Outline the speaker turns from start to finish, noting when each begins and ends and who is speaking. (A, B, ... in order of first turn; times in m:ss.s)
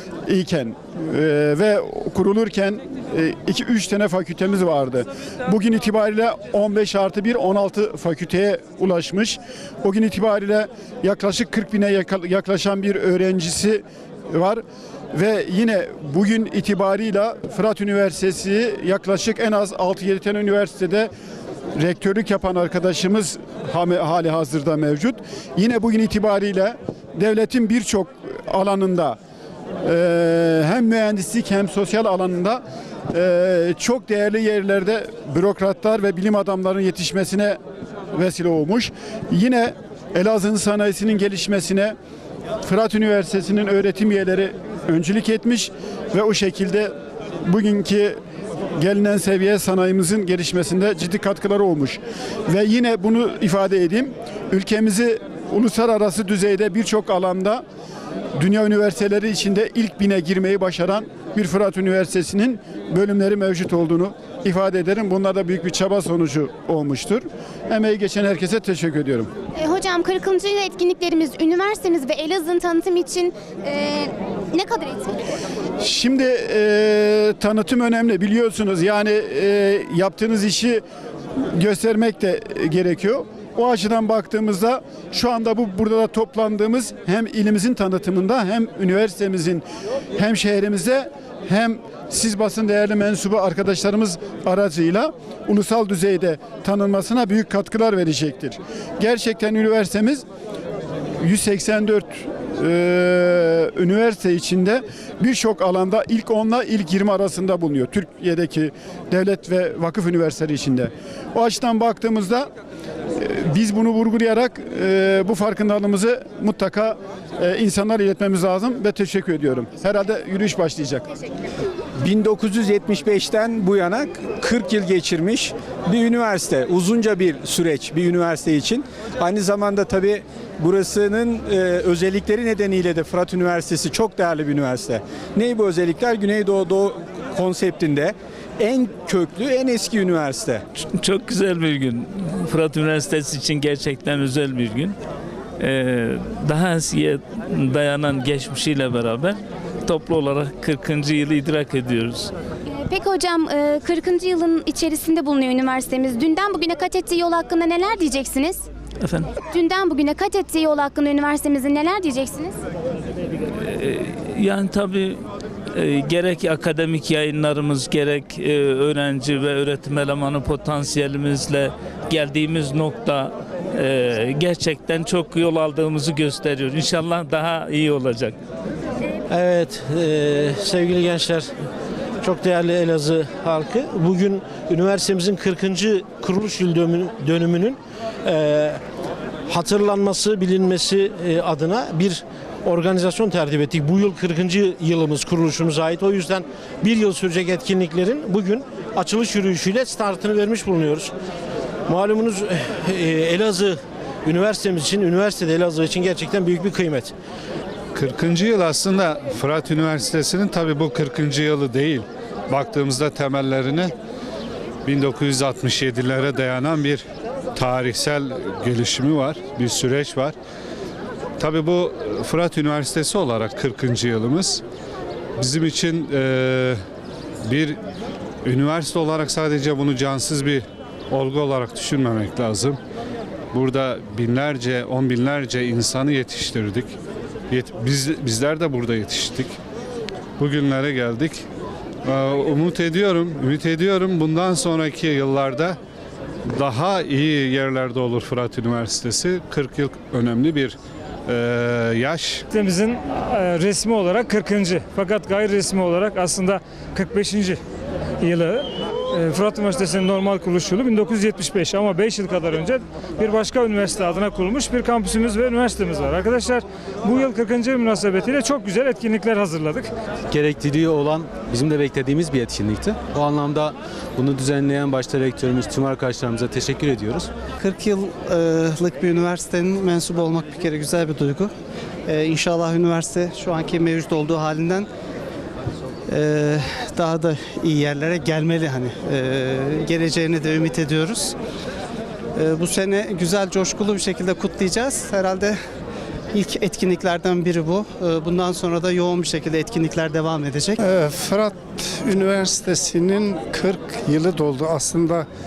0:00.3-0:21.1 A
0:21.8-0:29.2 A
0:29.8-0:37.6 A
0:38.1-0:41.9 A
0:42.6-0:48.2 A
0:48.8-0:57.6 A
0:58.4-1:09.3 A
1:09.6-1:15.1 B
1:15.8-1:20.8 A
1:21.4-1:29.6 A
1:30.2-1:40.2 A
1:41.2-1:52.5 A
1:53.1-2:01.0 A
2:02.0-2:20.6 C
2:20.8-2:24.9 D
2:25.6-2:32.3 D
2:32.7-2:38.6 B
2:39.0-2:39.3 D
2:39.5-2:42.6 B
2:43.6-2:45.2 D
2:45.7-2:58.4 D
2:59.3-3:01.5 E
3:02.2-3:08.8 E
3:09.5-3:21.1 E
3:21.8-3:27.1 E
3:27.9-3:33.9 F
3:34.8-3:37.0 F
3:37.5-3:40.3 F
3:41.4-3:44.6 F
3:45.4-3:46.8 F
3:47.5-3:47.8 F
3:48.4-3:52.8 F
3:53.5-3:56.9 F
3:57.5-3:59.6 F
4:00.4-4:01.4 F
4:02.0-4:05.8 F
4:06.5-4:10.8 F
4:11.3-4:12.4 F
4:12.5-4:17.6 G
4:18.2-4:29.9 G
4:30.3-4:37.3 H
4:37.6-4:41.5 I
4:42.1-4:44.9 I
4:46.1-4:51.4 I
4:52.4-4:55.6 I
4:56.3-5:00.8 I
5:00.8-5:05.3 J